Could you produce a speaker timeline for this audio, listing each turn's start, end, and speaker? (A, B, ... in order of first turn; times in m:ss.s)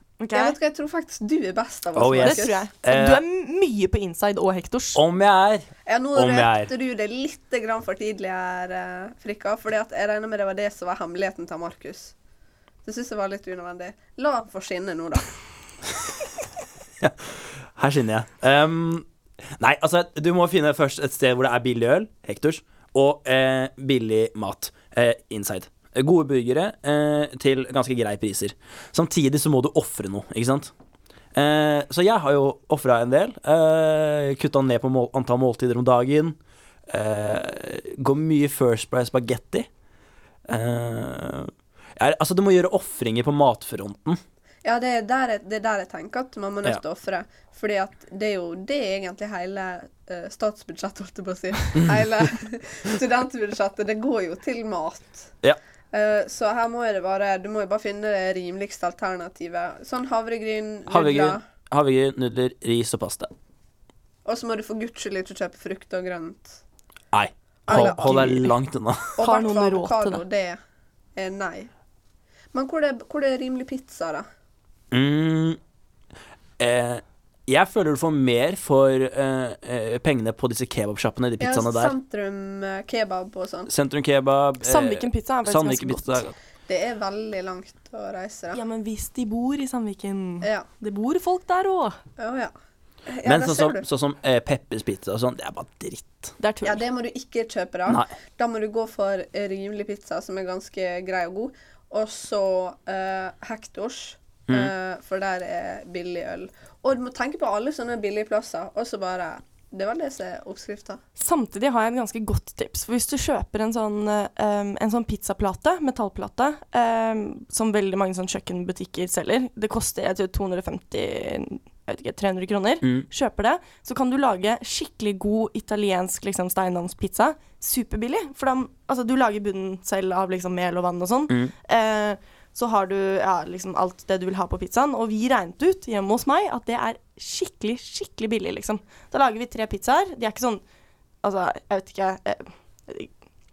0:00.2-0:00.6 A
0:00.3-0:02.6 B
0:02.0-0:03.2 C
0:02.2-0:05.0 A
0:05.0-0:06.7 C
0:05.9-0:12.1 B
0:12.8-0:15.3 B
0:17.0-0:30.7 C
0:31.3-0:36.4 C
0:36.9-0:39.7 C
0:40.5-0:44.2 C
0:44.6-0:55.3 B
0:55.9-1:01.4 B
1:00.9-1:03.3 C
1:04.2-1:06.6 B
1:07.1-1:09.1 C
1:07.7-1:08.5 B
1:07.7-1:08.4 A
1:09.2-1:10.6 B
1:09.2-1:10.2 A
1:11.2-1:11.7 B
1:12.5-1:14.2 B
1:14.9-1:15.6 C
1:16.6-1:21.9 C
1:21.4-1:23.7 B
1:23.7-1:26.3 C
1:24.6-1:26.3 A
1:26.7-1:28.6 B
1:28.5-1:32.0 A
1:32.2-1:32.5 B
1:33.1-1:33.9 B
1:33.2-1:36.4 C
1:36.4-1:36.8 A
1:36.6-1:51.0 B
1:37.9-1:38.1 C
1:51.2-2:20.6 A
2:21.2-2:23.1 A